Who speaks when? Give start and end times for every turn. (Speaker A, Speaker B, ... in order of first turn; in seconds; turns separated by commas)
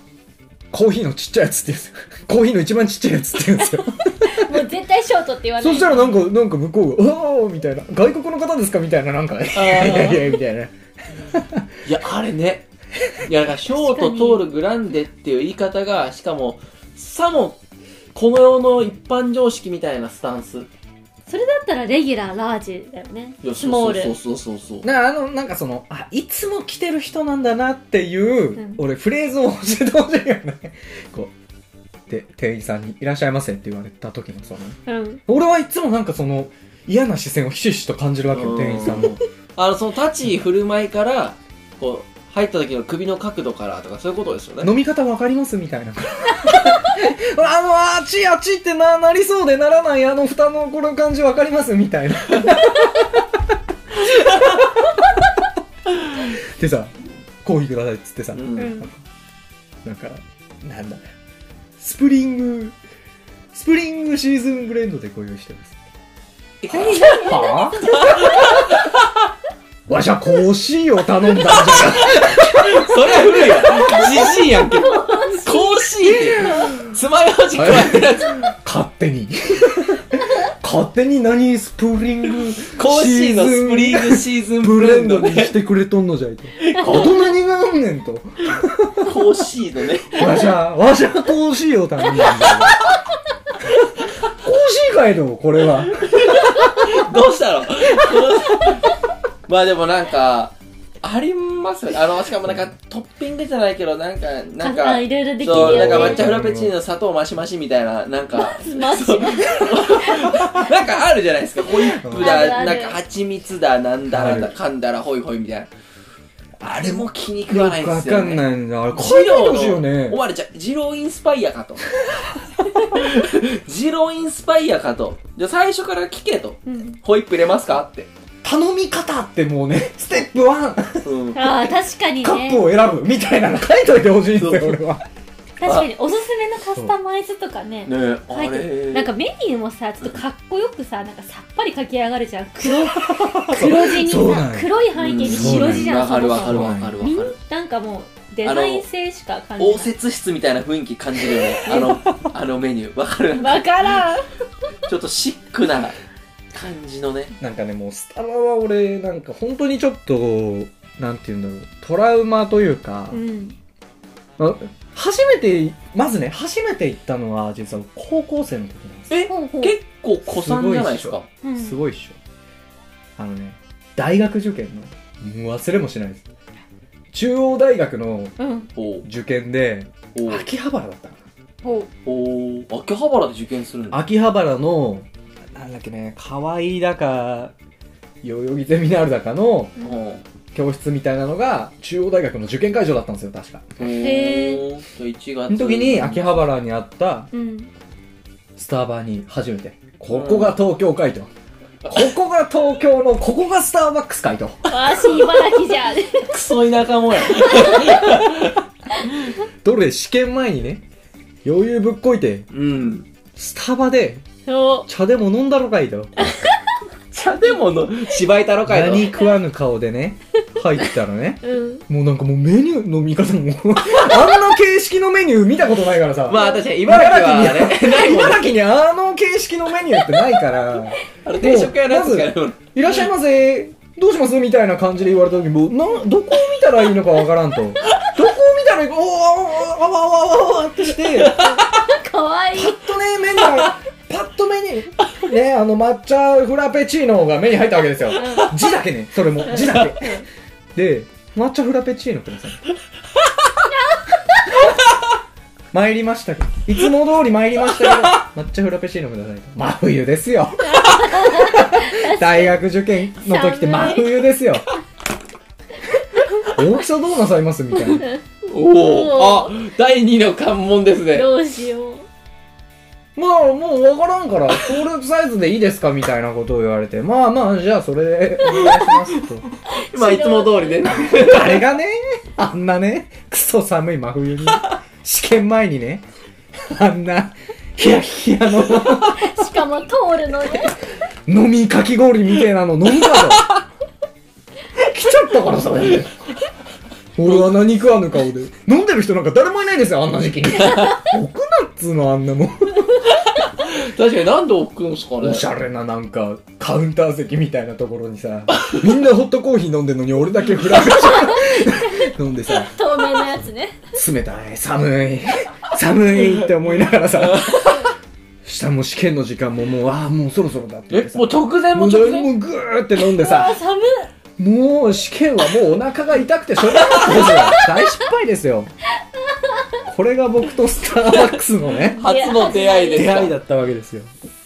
Speaker A: 0.7-4.6, Speaker B: 4.2-6.2, Speaker A: 5.6-11.7, Speaker C: 9.6-10.3, Speaker B: 9.8-10.2, Speaker C: 11.8-12.7, Speaker C: 13.2-17.6, Speaker B: 13.7-14.4, Speaker C: 18.1-20.7, Speaker B: 21.3-24.1, Speaker C: 23.4-24.9, Speaker A: 24.8-31.3, Speaker A: 32.1-39.2, Speaker B: 34.9-35.2, Speaker C: 38.3-44.7, Speaker A: 44.6-53.4, Speaker A: 54.0-55.2, Speaker A: 55.9-56.9, Speaker A: 57.4-59.0, Speaker C: 58.3-58.8, Speaker B: 58.6-58.9, Speaker A: 59.8-61.0, Speaker A: 61.8-62.8, Speaker A: 63.5-65.8, Speaker C: 66.6-69.1, Speaker B: 66.7-68.8, Speaker A: 66.7-68.8, Speaker A: 69.9-74.7, Speaker C: 71.5-78.5, Speaker B: 73.7-76.7, Speaker A: 76.1-76.9, Speaker A: 77.6-89.1, Speaker C: 82.8-85.5, Speaker C: 86.6-87.3, Speaker C: 89.0-90.4, Speaker A: 90.1-92.9, Speaker A: 94.3-96.9, Speaker C: 96.0-98.9, Speaker C: 99.5-115.7, Speaker B: 104.6-106.3, Speaker A: 105.4-106.7, Speaker B: 108.3-110.6, Speaker A: 112.0-112.5, Speaker B: 112.2-113.0, Speaker A: 114.1-114.5, Speaker A: 116.6-120.2, Speaker C: 116.6-121.9, Speaker C: 122.9-128.1, Speaker A: 122.9-123.2, Speaker B: 126.7-127.0, Speaker A: 128.4-131.1, Speaker C: 131.0-131.4, Speaker B: 131.3-132.7, Speaker A: 131.7-135.0, Speaker C: 134.3-134.8, Speaker B: 135.6-149.9, Speaker C: 135.6-135.9, Speaker C: 137.8-139.1, Speaker A: 142.6-144.7, Speaker C: 145.0-147.3, Speaker A: 145.2-147.0, Speaker C: 148.4-148.8, Speaker C: 149.6-154.0, Speaker A: 151.4-152.3, Speaker B: 151.7-152.0, Speaker B: 153.3-154.3, Speaker C: 154.9-156.0, Speaker C: 156.5-157.3, Speaker A: 157.4-163.2, Speaker B: 163.1-163.6, Speaker A: 164.4-169.1, Speaker C: 169.1-171.3, Speaker B: 169.2-169.8, Speaker A: 170.2-172.2, Speaker B: 171.4-171.8, Speaker A: 173.2-176.2, Speaker A: 177.1-178.4, Speaker B: 178.4-178.7, Speaker C: 178.8-179.1, Speaker A: 179.1-181.2, Speaker C: 180.2-180.5, Speaker B: 181.6-181.9, Speaker C: 182.1-184.0, Speaker A: 183.9-187.5, Speaker A: 188.2-189.8, Speaker C: 189.8-190.2, Speaker A: 190.5-193.8, Speaker C: 193.8-196.4, Speaker B: 193.9-194.7, Speaker A: 195.5-197.3, Speaker B: 197.3-197.7, Speaker A: 198.6-201.3, Speaker C: 200.1-200.6, Speaker C: 201.8-202.1, Speaker A: 201.9-204.7, Speaker B: 204.7-206.3, Speaker C: 206.3-208.6, Speaker B: 207.5-207.9, Speaker A: 209.6-210.8, Speaker A: 211.4-212.5, Speaker C: 212.5-213.1, Speaker A: 213.4-214.2, Speaker B: 214.5-214.9, Speaker A: 214.9-216.4, Speaker B: 216.2-216.7, Speaker C: 217.1-219.2, Speaker A: 218.7-241.5, Speaker B: 221.4-221.8, Speaker C: 226.2-228.5, Speaker C: 231.2-233.0, Speaker C: 241.2-241.6, Speaker B: 241.3-242.8, Speaker A: 242.5-252.6, Speaker B: 248.2-248.5, Speaker B: 249.5-250.2, Speaker A: 255.7-264.6, Speaker B: 260.6-262.6, Speaker B: 263.2-264.2, Speaker A: 266.4-268.1, Speaker B: 267.9-268.2, Speaker C: 268.4-271.3, Speaker B: 268.8-269.6, Speaker B: 271.1-272.1, Speaker A: 273.2-279.4, Speaker C: 278.4-279.2, Speaker B: 279.8-280.8, Speaker C: 279.9-281.6, Speaker A: 280.9-286.1, Speaker A: 286.6-289.4, Speaker B: 288.9-290.8, Speaker A: 291.3-293.5, Speaker A: 294.7-296.1, Speaker A: 297.2-303.1, Speaker C: 300.6-301.0, Speaker C: 303.2-305.5, Speaker A: 305.2-313.4, Speaker B: 310.9-313.8, Speaker A: 313.9-317.9, Speaker C: 317.2-317.9, Speaker A: 318.4-323.6, Speaker C: 320.9-322.3, Speaker B: 323.0-324.1, Speaker A: 324.4-328.7, Speaker B: 326.8-328.0, Speaker C: 326.9-327.2, Speaker B: 329.3-329.8, Speaker A: 329.9-332.1, Speaker C: 331.7-333.4, Speaker B: 331.8-333.3, Speaker A: 332.9-334.1